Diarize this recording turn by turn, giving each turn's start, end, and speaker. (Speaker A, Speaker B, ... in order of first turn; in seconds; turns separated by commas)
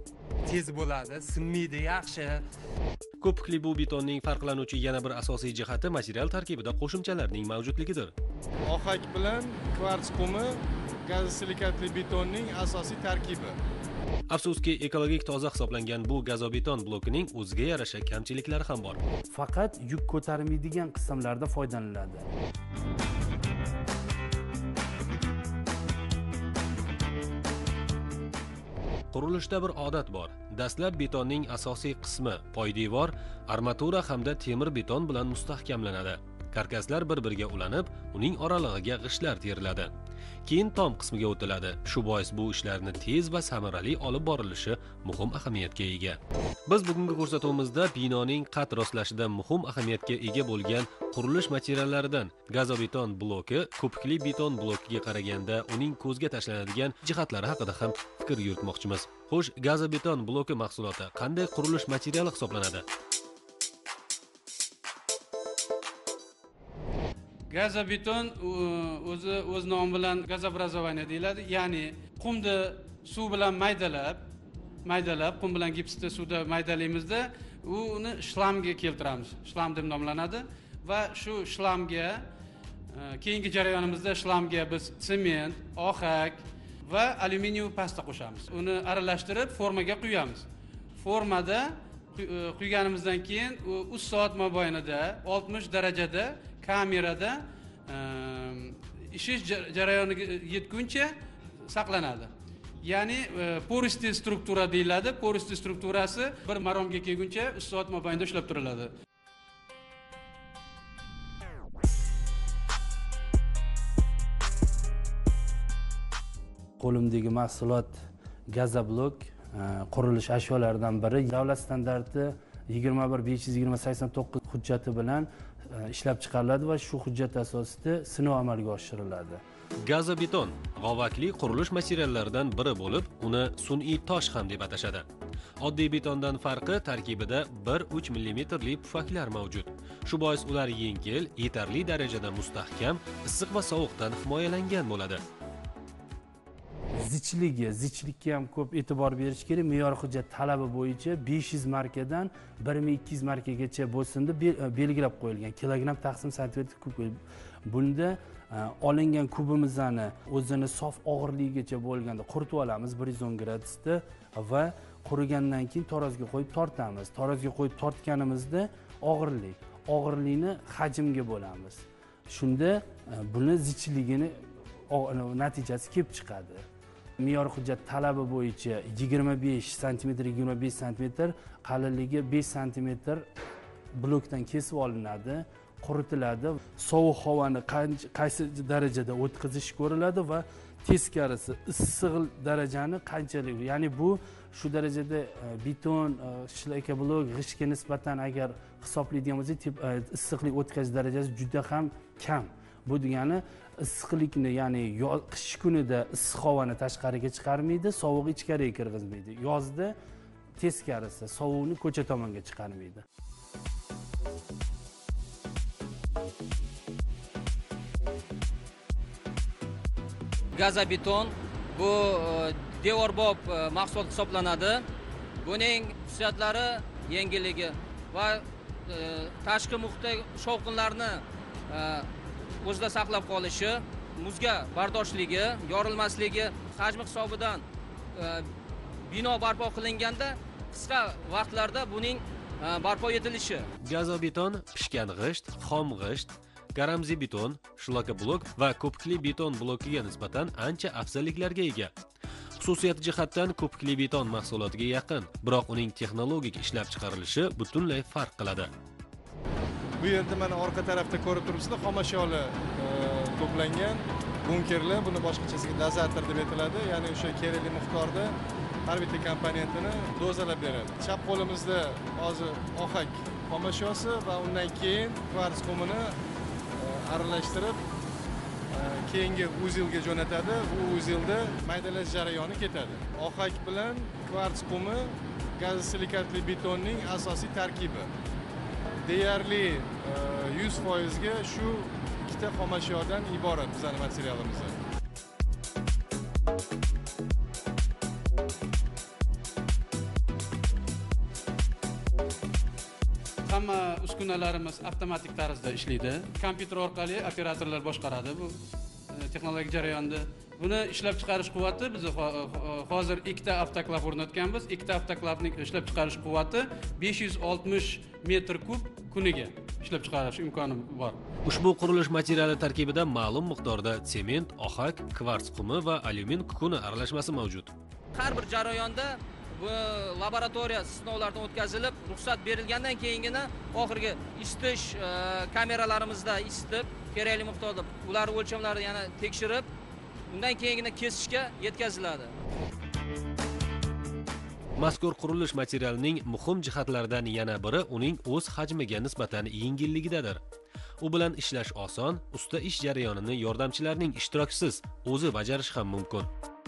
Speaker A: 0.5-2.4, Speaker B: 3.2-8.1, Speaker C: 8.7-13.6, Speaker B: 14.3-19.0, Speaker D: 19.3-22.3, Speaker B: 29.1-39.9, Speaker B: 40.5-62.9, Speaker E: 67.5-74.3, Speaker E: 74.8-82.3, Speaker E: 82.9-90.5, Speaker E: 91.0-101.2, Speaker E: 101.7-102.3, Speaker E: 102.8-108.9, Speaker D: 116.8-118.0, Speaker D: 118.5-129.4, Speaker B: 129.8-135.1, Speaker B: 135.6-145.2, Speaker D: 147.0-174.4, Speaker D: 174.9-176.6, Speaker D: 177.2-183.3, Speaker D: 184.0-210.0, Speaker D: 210.6-213.0, Speaker F: 220.6-224.8, Speaker F: 225.4-232.1, Speaker F: 232.6-238.5, Speaker F: 239.0-243.7, Speaker B: 243.8-251.9, Speaker B: 252.6-258.7, Speaker C: 260.0-276.2, Speaker C: 276.8-277.8, Speaker C: 278.7-288.1, Speaker C: 289.1-294.8, Speaker E: 303.4-308.6, Speaker E: 309.1-321.2, Speaker B: 321.4-327.7, Speaker F: 328.1-339.7, Speaker F: 340.3-342.4, Speaker B: 344.8-350.4, Speaker B: 351.0-356.3